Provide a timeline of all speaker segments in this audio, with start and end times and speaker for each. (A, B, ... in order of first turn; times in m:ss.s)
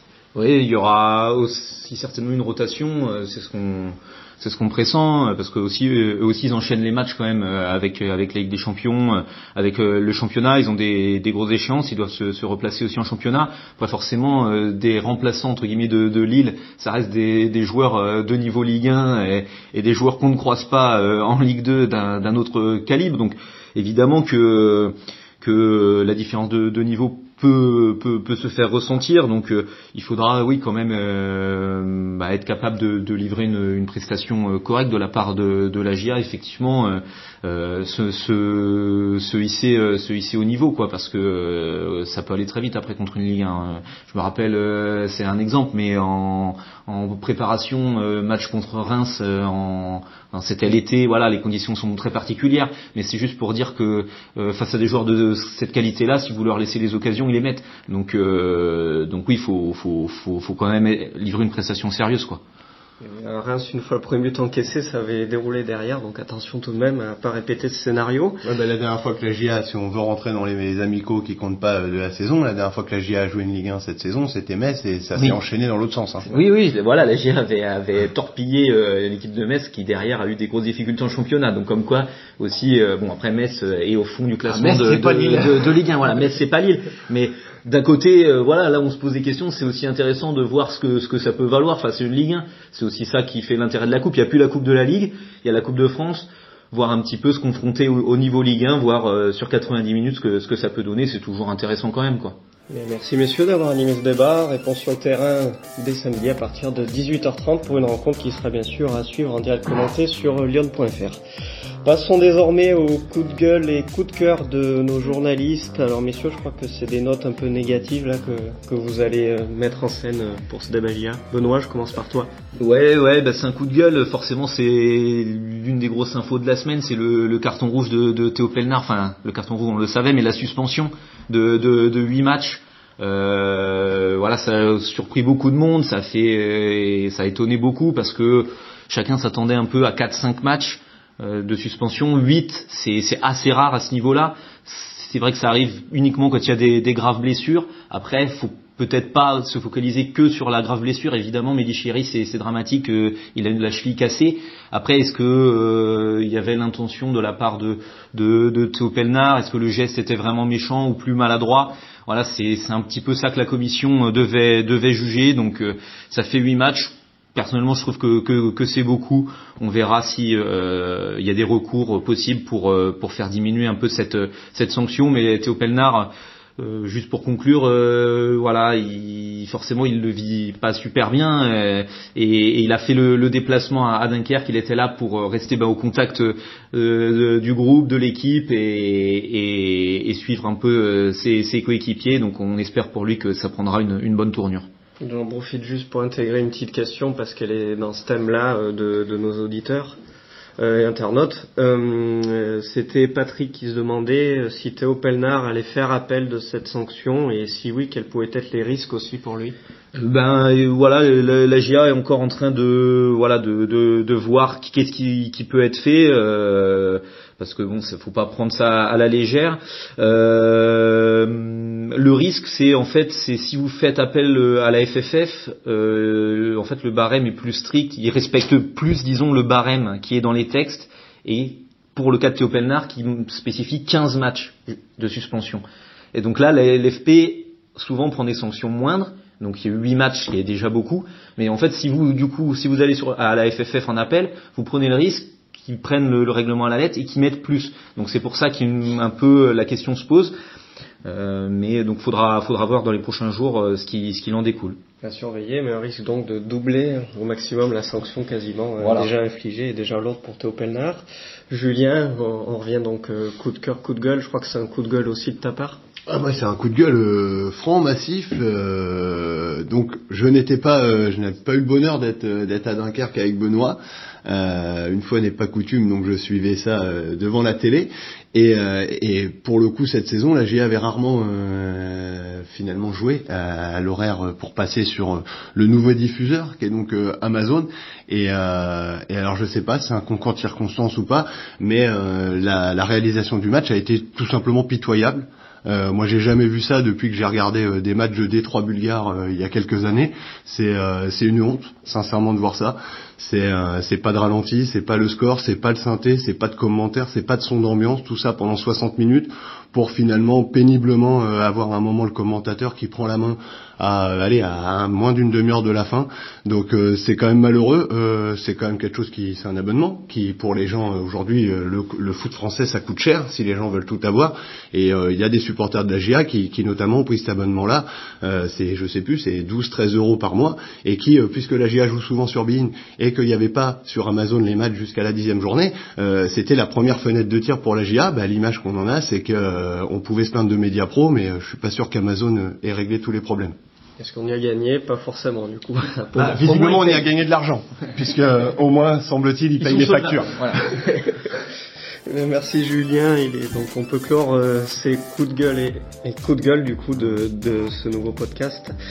0:00.3-1:02.4 A
1:03.0-1:08.4 B
1:08.4-1:16.4 C
1:16.3-1:42.4 A
1:24.5-1:25.7 C
1:42.7-1:51.2 B
1:51.8-2:02.3 B
2:02.6-3:14.6 A
3:15.0-3:20.0 B
3:20.6-3:29.6 B
3:29.9-4:10.3 A
4:11.0-4:14.8 A
4:15.0-4:25.8 B
4:18.8-4:19.1 A
4:26.1-5:43.6 C
5:44.0-5:47.0 B
5:46.2-5:50.8 C
5:49.7-5:50.5 A
5:52.0-5:58.7 B